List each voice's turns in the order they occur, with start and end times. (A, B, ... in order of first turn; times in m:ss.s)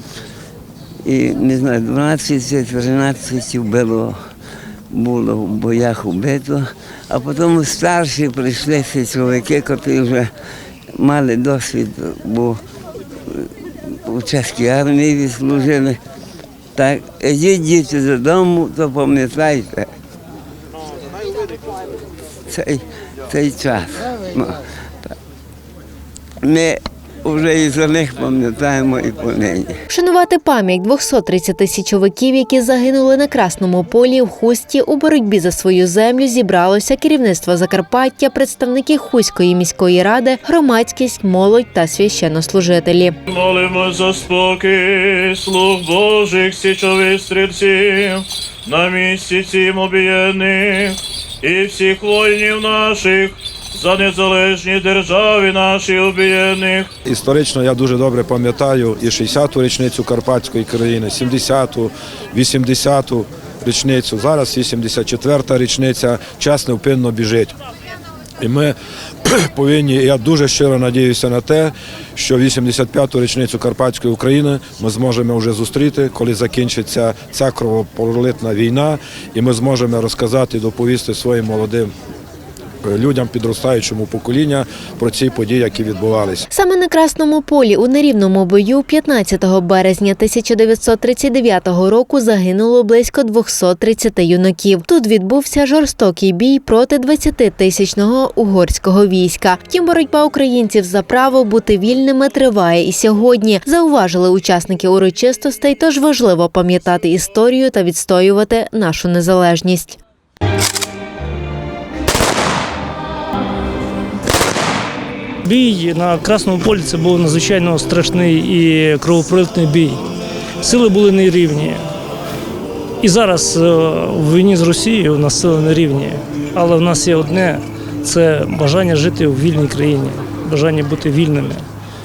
0:01.0-0:04.2 A
0:04.9-0:10.3 A
0:10.9-0:12.6 A
0:13.3-0:16.0 A
0:16.7-0:19.9 A
0:22.5-0:25.1 A
0:26.4-0:29.8 A
0:29.9-0:43.2 B
0:43.3-0:56.8 C
0:57.0-1:07.6 D
1:08.4-1:21.9 D
1:22.8-1:26.5 D
1:26.5-1:50.0 B
1:55.4-2:00.0 E
2:00.6-2:01.9 E
2:03.0-2:11.6 E